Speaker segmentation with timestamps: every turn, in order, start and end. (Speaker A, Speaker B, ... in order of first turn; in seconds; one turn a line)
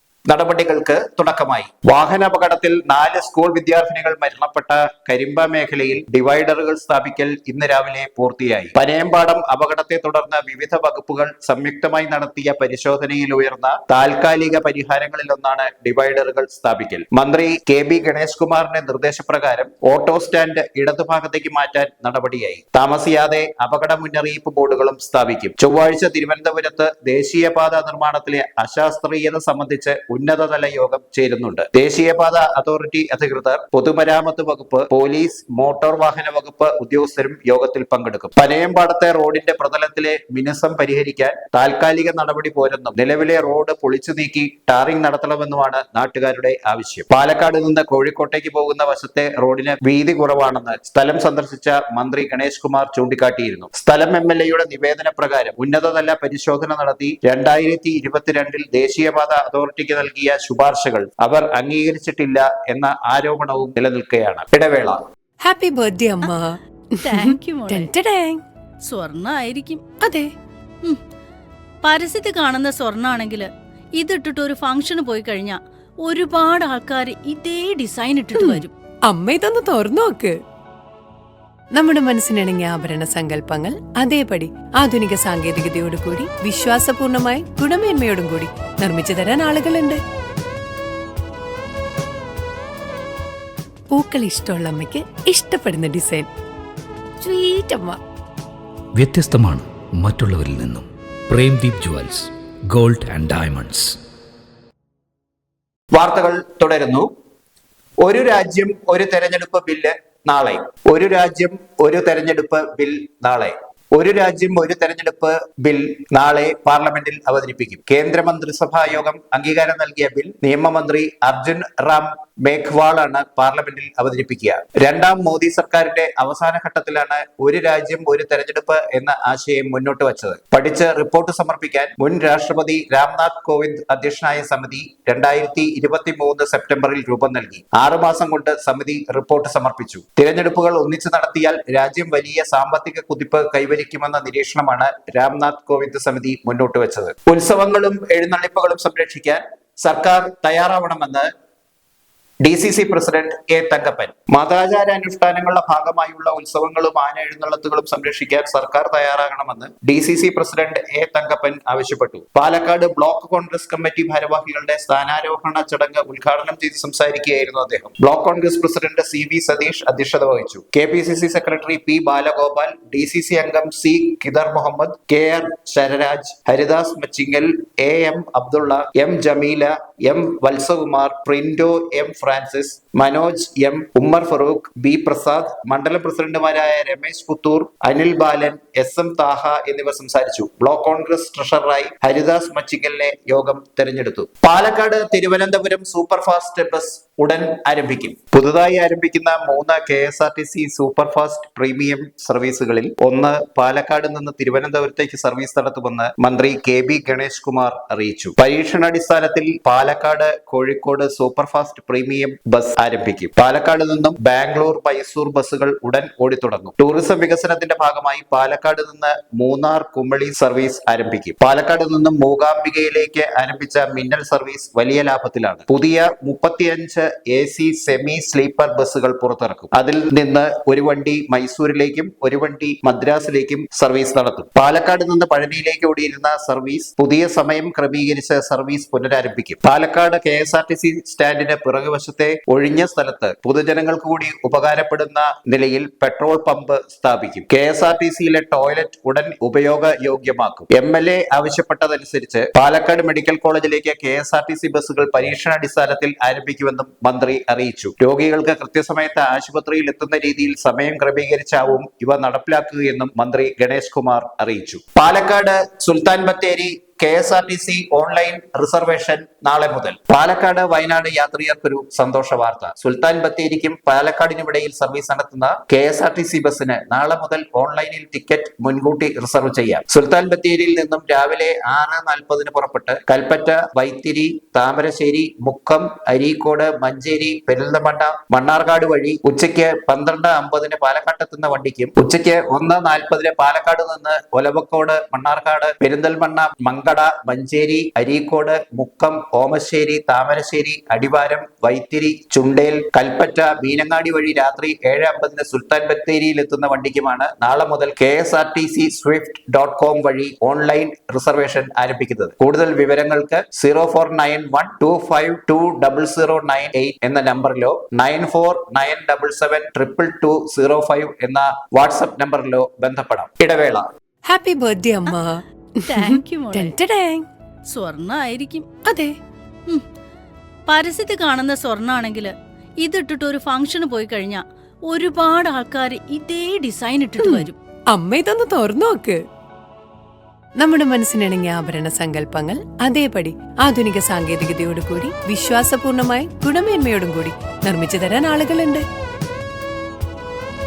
Speaker A: 0.3-65.0
Speaker B: 65.4-68.4
Speaker C: 67.0-67.9
Speaker C: 68.8-69.8
Speaker B: 70.0-70.3
Speaker C: 71.8-78.7
Speaker B: 78.4-80.3
Speaker B: 81.7-90.0
Speaker B: 93.9-96.3
Speaker B: 97.2-98.0
Speaker D: 99.0-104.0
Speaker A: 105.9-107.1
Speaker A: 108.0-151.3
Speaker A: 152.4-323.9
Speaker B: 324.3-327.2
Speaker C: 325.9-326.8
Speaker C: 327.7-328.7
Speaker B: 328.9-329.1
Speaker C: 330.7-337.6
Speaker B: 337.2-339.2
Speaker B: 340.6-348.8